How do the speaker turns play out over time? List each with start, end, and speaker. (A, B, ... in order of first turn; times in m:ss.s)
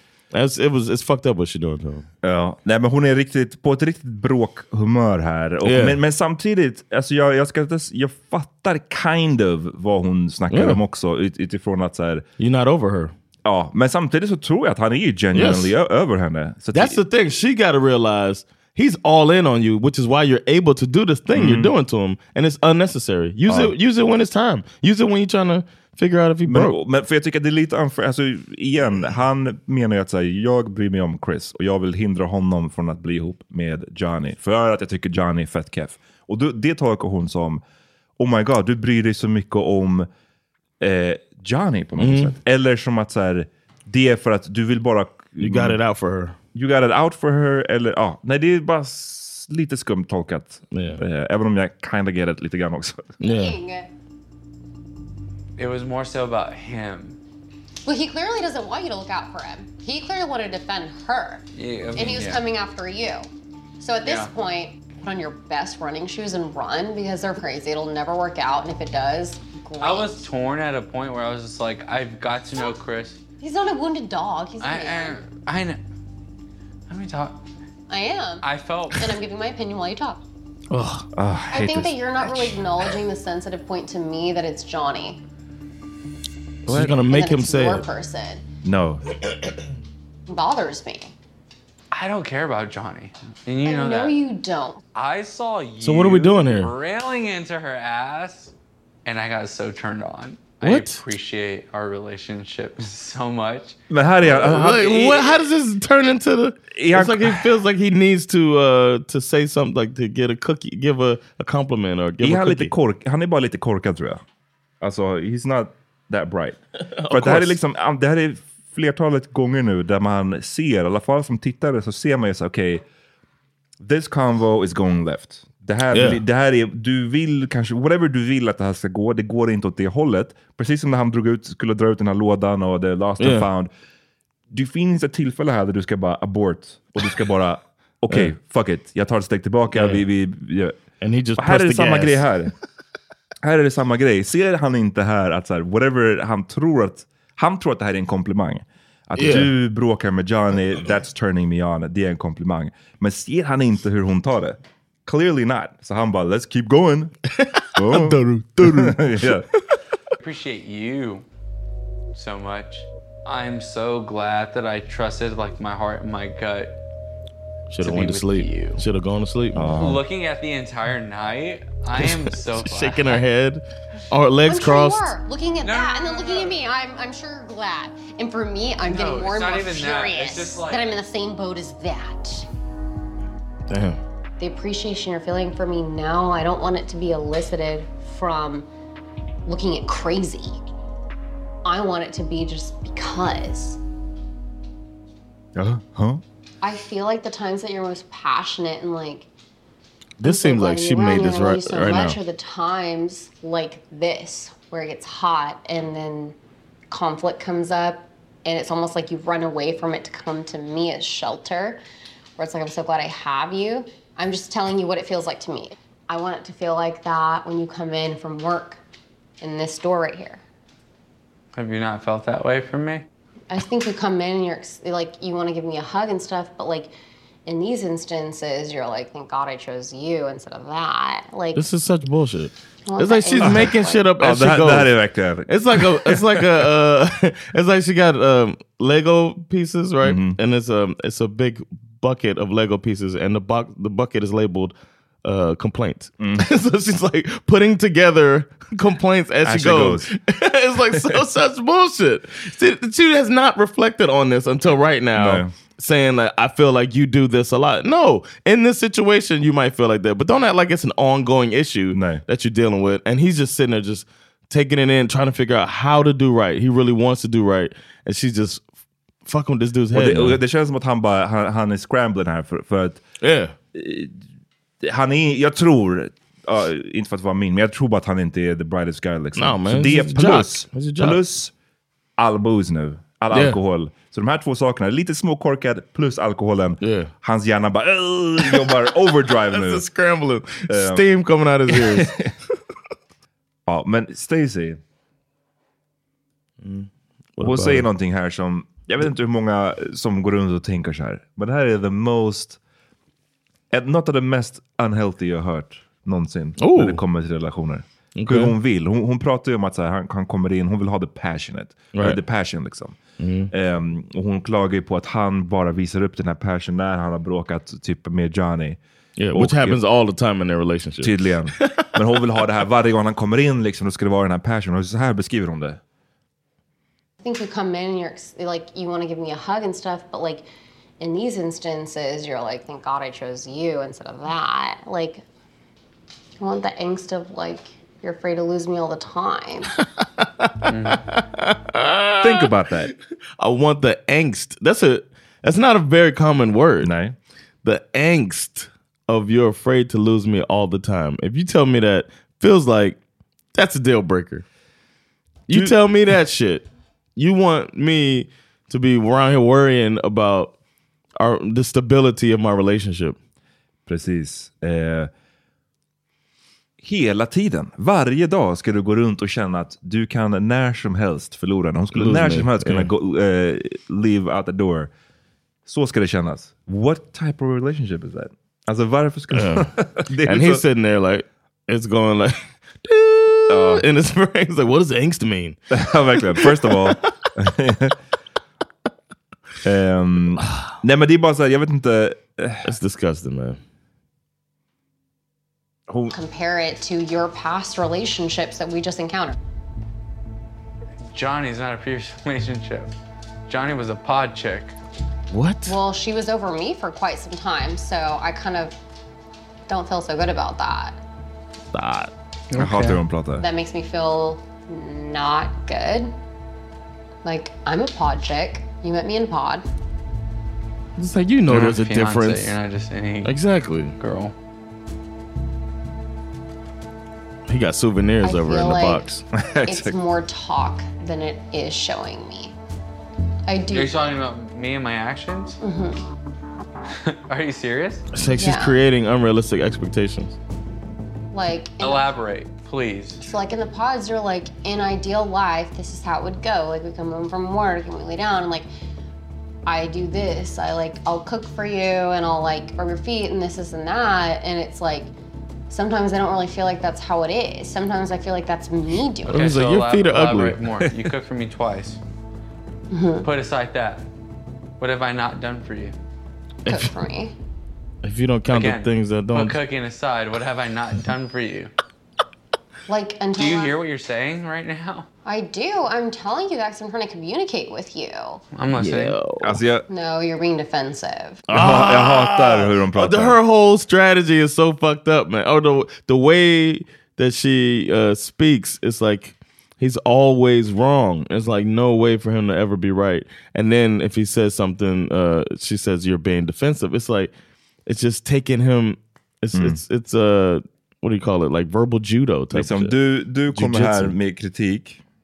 0:00.3-0:02.1 A
0:02.2-0:12.3 B
0:05.6-0:06.0 A
0:10.5-0:10.8 A
0:12.4-0:13.1 A
0:13.4-0:17.0 B
0:15.3-0:15.7 A
0:16.7-0:26.8 A
0:21.3-0:21.7 B
0:23.5-0:23.7 B
0:26.5-0:37.6 B
0:38.2-0:40.1 B
0:40.8-0:45.8 B
0:42.0-0:42.4 A
0:45.4-0:46.4 A
0:46.5-0:53.2 B
0:50.7-0:51.0 A
0:53.2-0:53.6 A
0:53.2-0:53.9 C
0:55.6-0:57.2 D
0:57.8-1:01.4 C
1:01.6-1:02.5 D
1:01.9-1:03.3 C
1:03.8-1:10.3 C
1:04.0-1:04.3 D
1:09.8-1:13.2 D
1:13.4-1:15.3 C
1:14.6-1:15.8 D
1:16.9-1:17.4 D
1:17.9-1:20.2 C
1:18.4-1:19.2 D
1:20.7-1:21.1 A
1:21.2-1:22.0 B
1:21.5-1:25.2 C
1:26.7-1:27.8 A
1:26.7-1:27.0 B
1:27.0-1:28.4 C
1:28.6-1:29.0 B
1:30.3-1:31.1 C
1:31.9-1:34.2 D
1:33.6-1:34.8 C
1:34.9-1:38.5 D
1:35.8-1:36.7 A
1:39.0-1:43.8 D
1:40.6-1:41.0 A
1:43.9-1:45.3 B
1:44.2-1:52.7 A
1:46.7-1:47.5 B
1:52.2-1:54.2 B
1:54.8-1:56.6 B
1:56.8-1:57.6 A
1:57.1-2:02.8 B
2:03.8-2:13.7 B
2:05.9-2:06.2 A
2:13.2-2:13.5 A
2:14.5-2:20.8 B
2:19.7-2:20.0 A
2:21.0-2:22.3 A
2:21.4-2:22.5 B
2:23.4-2:37.1 B
2:29.2-2:29.5 A
2:37.4-2:39.8 A
2:37.8-2:39.5 B
2:40.2-2:41.3 D
2:42.1-2:46.8 D
2:47.7-2:49.9 A
2:47.8-2:48.8 D
2:49.6-2:50.0 B
2:49.8-2:53.2 D
2:52.0-2:55.1 A
2:54.5-3:02.5 C
2:55.6-2:56.6 D
2:58.8-3:00.9 D
3:03.7-3:04.0 A
3:04.4-3:08.7 C
3:09.5-3:10.6 C
3:11.6-3:13.8 C
3:15.6-3:16.2 B
3:16.6-3:19.3 C
3:20.2-3:22.2 A
3:20.2-3:26.4 C
3:26.9-3:31.8 C
3:32.4-3:38.8 C
3:39.4-3:40.4 C
3:41.5-3:43.0 D
3:43.5-3:46.9 C
3:47.5-3:51.6 C
3:51.5-3:54.9 A
3:52.9-3:54.0 C
3:54.2-3:56.7 B
3:55.5-4:28.6 A
4:00.0-4:00.4 B
4:06.2-4:06.5 B
4:09.4-4:10.1 B
4:10.8-4:11.2 B
4:15.2-4:15.5 B
4:21.9-4:22.2 B
4:29.2-4:30.4 A
4:29.9-4:33.0 B
4:33.2-4:33.6 A
4:33.7-4:34.2 B
4:34.8-4:41.5 B
4:39.4-4:41.2 A
4:42.2-4:49.9 B
4:43.3-4:43.6 A
4:46.8-4:47.1 A
4:48.5-4:52.2 A
4:50.7-4:51.1 B
4:51.7-4:52.3 B
4:53.7-4:54.8 B
4:56.6-4:57.9 A
4:57.4-5:02.6 B
5:03.7-5:13.0 B
5:06.6-5:07.0 A
5:08.2-5:08.6 A
5:11.9-5:12.2 A
5:13.2-5:13.5 A
5:13.5-5:18.8 B
5:19.2-5:21.9 A
5:19.3-5:19.8 B
5:21.0-5:25.8 B
5:27.2-5:30.4 C
5:31.0-5:35.2 C
5:36.4-5:39.7 C
5:40.0-5:42.5 A
5:40.7-5:41.0 D
5:42.2-5:42.9 B
5:43.4-5:46.9 A
5:46.8-5:47.2 B
5:47.6-5:53.0 A
5:53.5-5:54.4 A
5:55.5-6:00.5 A
5:55.5-5:55.8 B
6:01.2-6:03.2 A
6:03.9-6:05.1 B
6:06.8-6:14.9 B
6:11.9-6:12.9 A
6:15.7-6:20.6 B
6:19.3-6:25.6 A
6:23.5-6:23.8 B
6:25.7-6:28.0 B
6:26.3-6:27.0 A
6:29.6-6:32.7 B
6:30.4-6:30.7 A
6:32.6-6:33.6 A
6:35.9-6:36.1 B
6:36.1-6:39.4 C
6:41.1-6:42.9 D
6:43.5-6:44.8 D
6:45.3-6:45.8 A
6:45.7-6:48.8 C
6:49.7-6:51.0 C
6:51.7-6:52.1 A
6:52.5-6:53.0 D
6:52.6-6:53.4 B
6:53.4-6:56.1 C
6:57.2-6:59.6 C
7:01.0-7:02.5 A
7:01.5-7:03.4 D
7:03.2-7:04.0 A
7:04.0-7:04.3 D
7:07.5-7:09.2 A
7:08.2-7:09.1 C
7:09.3-7:09.9 B
7:09.6-7:12.5 C
7:13.5-7:14.2 C
7:13.7-7:15.6 D
7:15.6-7:16.0 C
7:17.0-7:18.0 D
7:18.1-7:20.4 A
7:18.3-7:18.8 C
7:21.3-7:22.1 C
7:21.8-7:23.2 D
7:23.2-7:28.7 C
7:29.7-7:35.1 C
7:35.7-7:39.5 C
7:39.2-7:42.0 D
7:39.3-7:40.6 A
7:42.9-7:43.3 C
7:43.2-7:44.1 D
7:44.8-7:46.0 D
7:46.7-7:46.9 A
7:46.7-7:47.3 C
7:48.0-7:49.6 A
7:48.5-7:51.7 D
7:52.9-7:53.8 C
7:53.3-7:55.1 D
7:55.2-7:58.4 C
7:58.5-7:59.2 D
7:58.8-7:59.6 A
7:59.4-7:59.8 B
7:59.9-8:01.4 C
8:01.5-8:17.3 A
8:01.5-8:03.4 B
8:17.9-8:23.0 A
8:19.5-8:19.8 B
8:22.5-8:25.0 B
8:23.5-8:24.2 A